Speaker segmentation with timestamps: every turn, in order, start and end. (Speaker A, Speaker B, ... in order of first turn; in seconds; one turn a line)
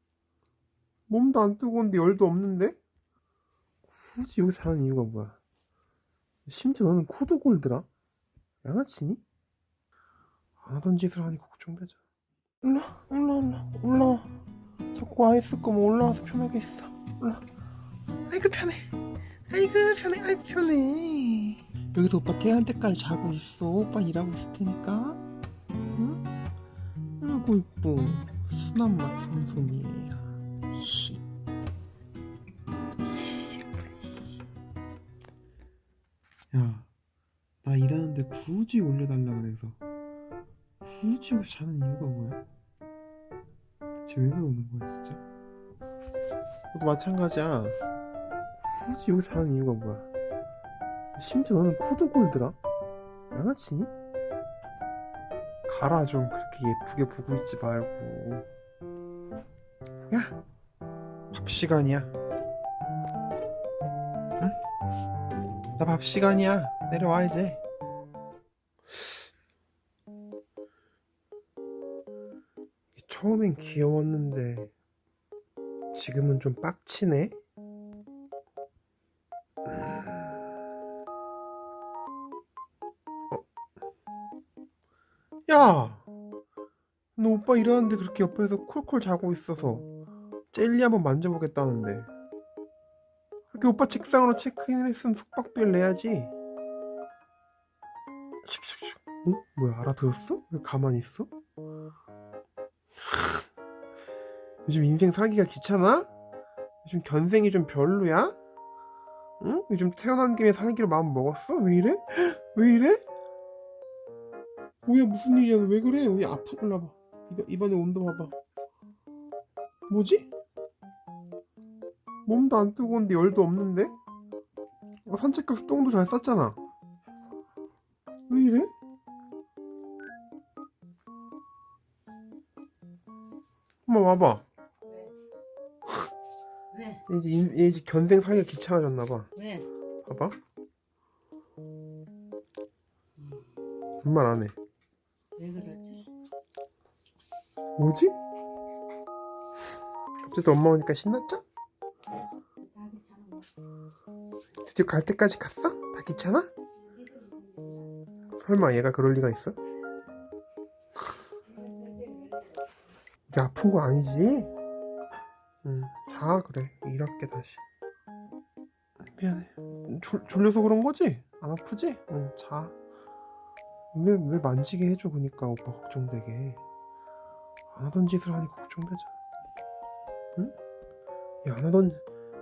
Speaker A: 1.1-2.8
Speaker A: 3.9-5.4
Speaker A: 6.5-7.9
Speaker A: 8.6-9.2
Speaker A: 10.6-12.0
Speaker A: 12.6-14.3
Speaker A: 14.9-17.4
Speaker A: 18.3-18.9
Speaker A: 19.5-25.2
Speaker A: 25.9-26.2
Speaker A: 27.2-31.2
Speaker A: 36.5-36.9
Speaker A: 37.6-39.8
Speaker A: 40.8-42.4
Speaker A: 44.0-45.2
Speaker A: 46.7-47.8
Speaker A: 48.6-50.1
Speaker A: 51.2-52.6
Speaker A: 53.3-53.9
Speaker A: 55.7-58.5
Speaker A: 60.1-60.4
Speaker A: 61.3-62.1
Speaker A: 65.8-67.6
Speaker A: 73.0-74.7
Speaker A: 75.9-77.4
Speaker A: 79.7-80.1
Speaker A: 85.5-86.1
Speaker A: 87.2-89.9
Speaker A: 90.5-92.1
Speaker A: 93.5-96.3
Speaker A: 98.5-101.3
Speaker A: 103.1-103.4
Speaker A: 104.7-106.1
Speaker A: 106.8-108.4
Speaker A: 109.4-113.0
Speaker A: 114.8-118.3
Speaker A: 119.9-120.3
Speaker A: 122.3-124.0
Speaker A: 125.1-126.6
Speaker A: 128.3-128.7
Speaker A: 133.9-134.4
Speaker A: 136.9-139.5
Speaker A: 140.1-140.3
Speaker A: 144.0-144.5
Speaker B: 145.4-146.1
Speaker A: 147.8-148.2
Speaker A: 150.2-151.4
Speaker B: 152.7-153.5
Speaker A: 154.6-156.5
Speaker B: 156.9-157.9
Speaker A: 158.4-159.6
Speaker B: 161.5-162.5
Speaker A: 163.3-164.5
Speaker A: 165.6-167.6
Speaker A: 169.0-172.8
Speaker A: 173.9-176.6
Speaker A: 177.7-179.1
Speaker A: 181.4-182.1